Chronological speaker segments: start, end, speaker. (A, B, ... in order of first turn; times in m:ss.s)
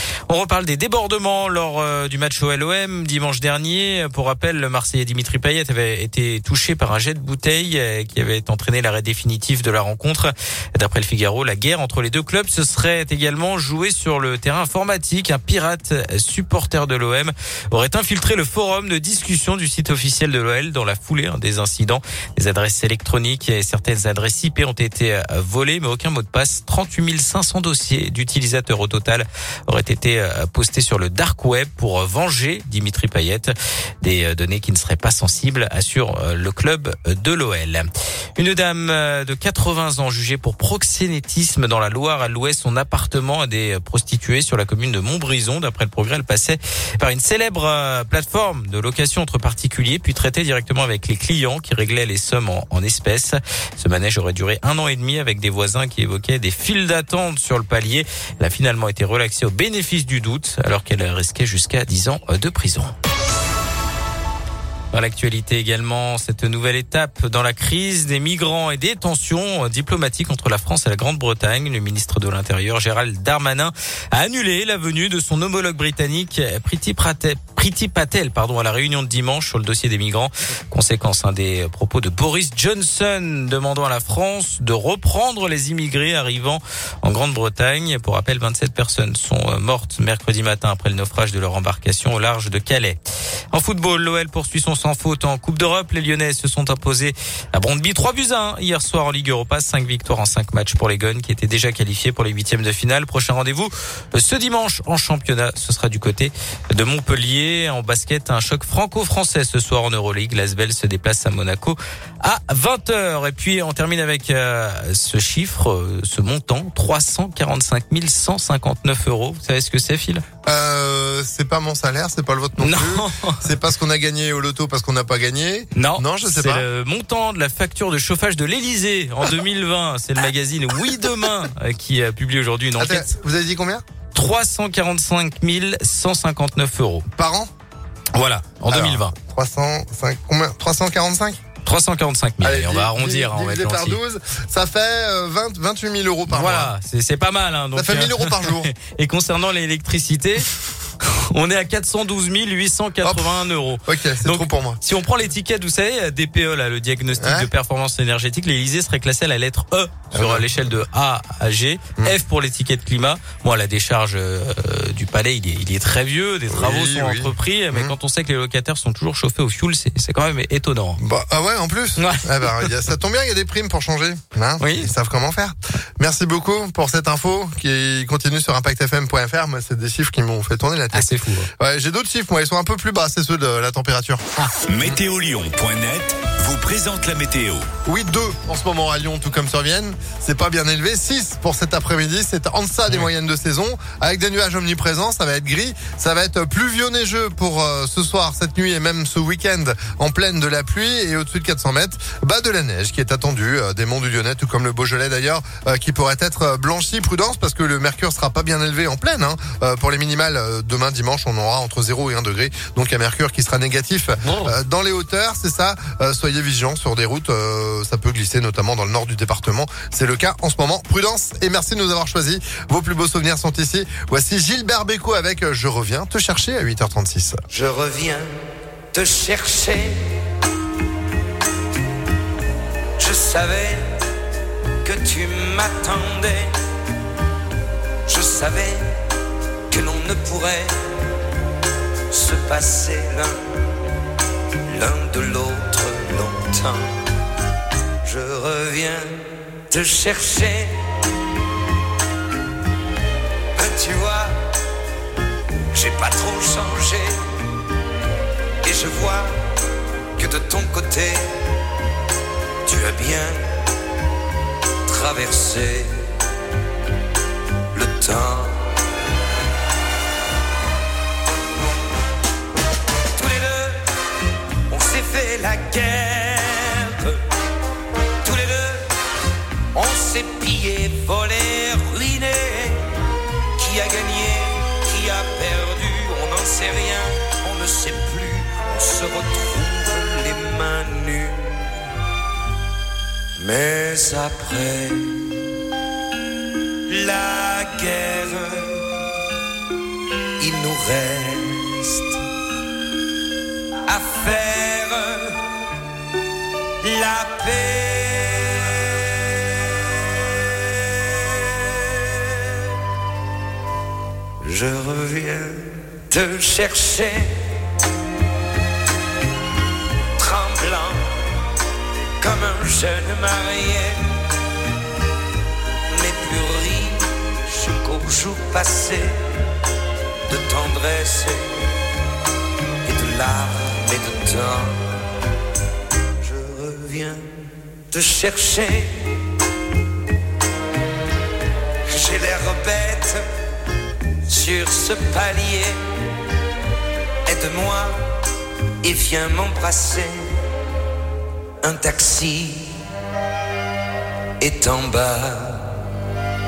0:00.3-1:03.0 A
1:04.9-1:33.0 A
1:33.5-2:00.2 A
2:00.5-2:06.7 B
2:02.6-2:03.5 A
2:05.7-2:13.1 A
2:12.8-2:13.8 B
2:14.2-2:17.1 A
2:17.2-2:17.5 B
2:18.1-2:19.1 A
2:18.7-2:21.4 B
2:21.6-2:24.0 A
2:22.4-2:26.7 B
2:26.3-2:30.5 A
2:27.8-2:28.7 B
2:31.0-2:51.0 A
2:33.0-2:33.3 B
2:33.9-2:34.8 B
2:37.2-2:37.5 B
2:40.1-2:40.5 B
2:46.5-2:48.0 B
2:51.0-3:04.2 B
2:52.0-2:52.7 A
2:54.6-2:54.9 A
3:00.9-3:01.5 A
3:04.5-3:07.7 C
3:07.9-3:47.4 B
3:47.5-3:48.4 D
3:48.9-3:50.1 D
3:53.0-3:53.9 D
3:54.8-3:56.5 D
3:58.1-3:59.0 D
3:59.7-4:00.8 D
4:02.1-4:03.4 D
4:04.6-4:07.0 D
4:08.0-4:10.9 D
4:13.6-4:14.4 D
4:15.7-4:17.2 D
4:18.6-4:19.4 D
4:20.2-4:21.3 D
4:22.7-4:23.6 D
4:24.9-4:26.1 D
4:27.7-4:28.7 D
4:33.2-4:33.9 D
4:34.7-4:37.2 D
4:38.2-4:38.9 D
4:39.7-4:43.0 D
4:43.6-4:51.8 D
4:53.4-4:55.5 D
4:56.9-4:59.1 D
5:00.4-5:02.2 D
5:03.9-5:05.5 D
5:06.8-5:12.8 D
5:14.4-5:17.6 D
5:20.2-5:21.3 D
5:22.2-5:24.2 D
5:25.9-5:29.3 D
5:30.3-5:31.8 D
5:32.8-5:35.1 D
5:36.2-5:39.2 D
5:41.9-5:43.2 D
5:44.3-5:45.8 D
5:47.3-5:48.0 D
5:48.8-5:50.5 D
5:51.6-5:52.9 D
5:54.4-5:55.9 D